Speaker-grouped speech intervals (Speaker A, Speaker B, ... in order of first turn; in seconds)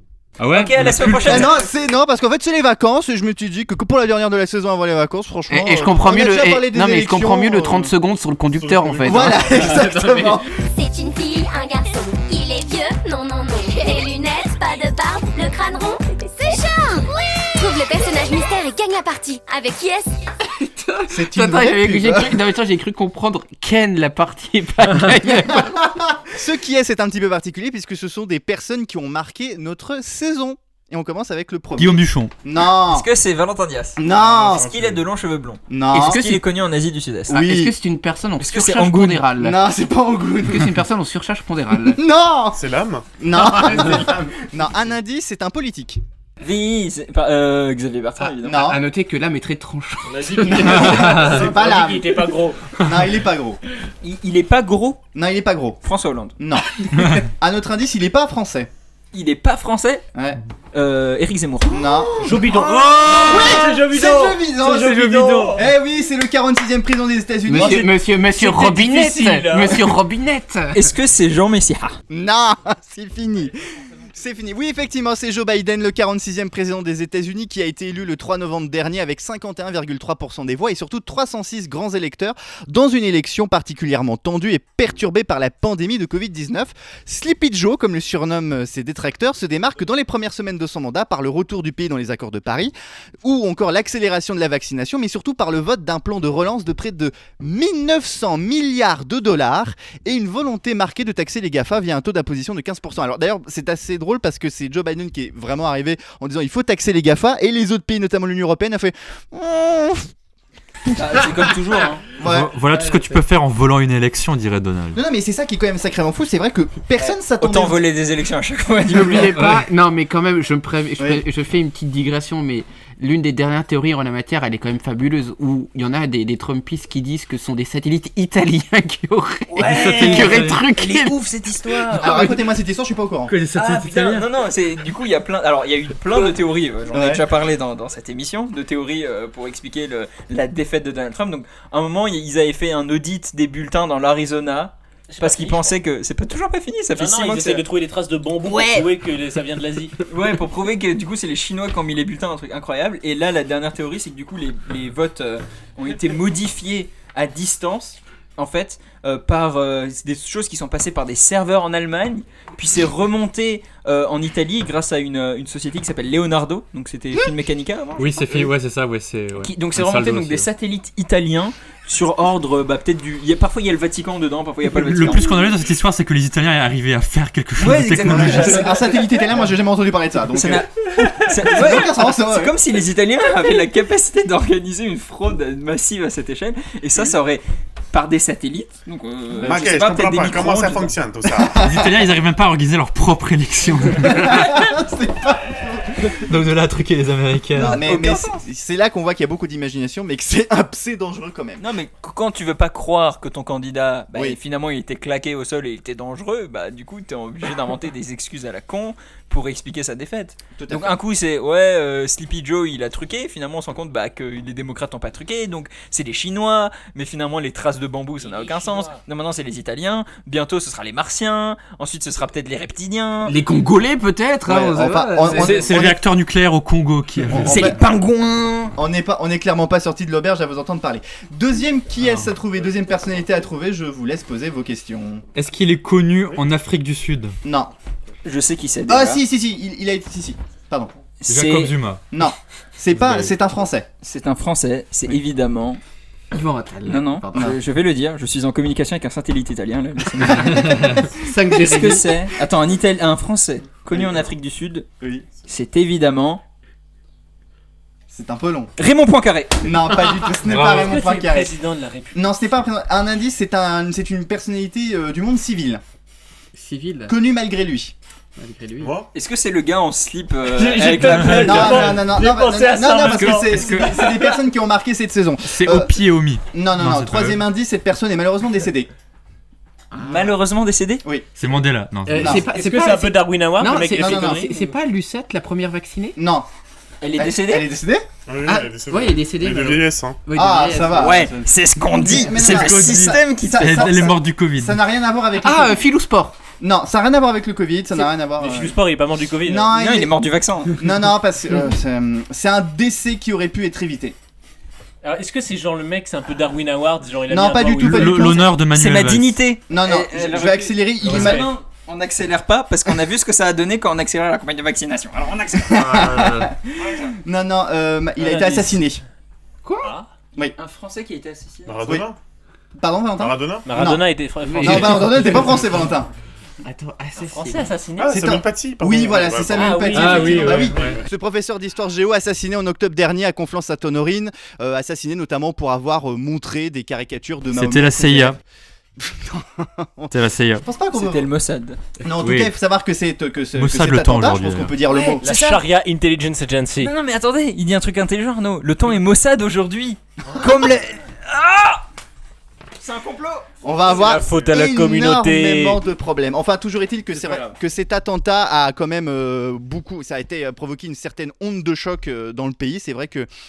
Speaker A: 0.4-1.5, 31.8-32.3, 65.2-65.5, 112.2-115.0, 129.7-130.7, 133.3-134.3, 168.0-170.5, 174.7-178.7, 191.6-194.6, 196.2-197.8, 225.3-227.7, 235.3-237.3, 241.3-242.0, 242.9-243.3, 260.5-260.9, 271.0-271.5, 273.0-273.9, 275.4-277.4, 281.4-282.4, 292.3-294.8, 307.7-309.4, 315.8-316.5, 329.9-331.0, 337.5-338.4, 340.1-340.6, 342.2-342.5, 343.6-344.7
Speaker B: 0.5-1.6, 32.8-37.5, 38.4-39.3, 46.4-48.6, 54.0-55.0, 55.8-56.4, 59.1-60.0, 60.7-62.0, 62.6-63.0, 70.7-72.0, 110.9-112.1, 117.4-119.6, 129.5-132.3, 133.5-147.7, 148.4-148.9, 150.1-168.5, 169.4-175.5, 177.6-179.1, 180.3-190.9, 197.6-198.4, 201.6-223.4, 227.4-228.8, 238.2-239.2, 241.2-241.8, 244.0-245.8, 246.9-254.9, 255.5-256.4, 258.8-259.9, 269.1-272.0, 280.0-281.0, 287.0-287.7, 291.0-294.1, 299.7-300.8, 308.7-315.9, 320.6-321.8, 340.9-341.8, 344.9-345.6, 346.8-351.8, 352.8-353.5, 357.2-357.4
Speaker C: 1.2-7.9, 9.0-10.5, 21.1-22.4, 25.5-33.1, 34.0-34.7, 35.7-36.2, 37.3-37.7, 39.4-40.8, 41.8-42.6, 43.2-46.0, 48.4-48.8, 50.4-53.6, 55.1-55.8, 56.4-58.7, 60.1-60.4, 61.7-67.9, 72.1-73.6, 74.1-110.1, 110.9-111.3, 112.2-112.6, 115.0-117.8, 131.9-133.3, 136.9-137.2, 178.1-180.7, 181.3-182.6, 191.4-191.9, 194.0-196.2, 197.5-201.6, 210.6-210.9, 224.5-226.0, 227.3-227.8, 228.8-235.2, 237.4-237.7, 238.9-240.9, 242.1-243.9, 253.9-254.2, 255.0-255.3, 258.1-258.7, 259.6-261.5, 262.1-265.8, 267.1-267.9, 271.3-276.0, 276.5-278.9, 282.2-282.4, 283.9-284.5, 286.2-286.5, 287.2-288.1, 290.3-291.5, 292.0-295.8, 296.6-298.8, 299.4-300.1, 300.8-304.2, 307.3-308.6, 309.7-311.5, 315.7-319.0, 322.8-324.1, 324.6-326.1, 328.1-338.4, 339.0-341.3, 342.0-345.3, 353.6-363.3
Speaker D: 5.5-9.7, 20.6-25.9, 35.9-36.4, 37.4-39.6, 40.5-42.0, 48.5-50.7, 67.5-70.9, 118.9-131.2, 132.0-132.3, 223.3-225.6, 246.3-247.6, 251.0-252.1, 266.6-267.1, 268.4-268.9, 279.9-280.4, 282.1-286.2, 288.5-291.3, 295.4-296.4, 319.6-319.9, 324.5-325.7, 326.6-327.7
Speaker E: 8.5-9.7, 34.1-35.0, 42.5-43.1, 43.6-44.1, 189.4-191.6, 268.8-269.1, 288.3-290.2, 321.7-322.2, 323.2-323.7, 328.0-331.0
Speaker F: 10.6-20.2
Speaker G: 50.1-52.8, 62.2-65.6, 67.6-69.8, 145.1-145.8, 146.9-150.0, 218.2-219.0, 260.5-262.2, 270.5-274.4, 282.3-284.7, 297.9-299.8, 305.0-308.4, 310.4-311.5, 318.2-318.9, 319.8-320.1, 323.7-325.4, 327.2-328.3, 329.5-330.9, 345.2-346.9, 353.9-355.8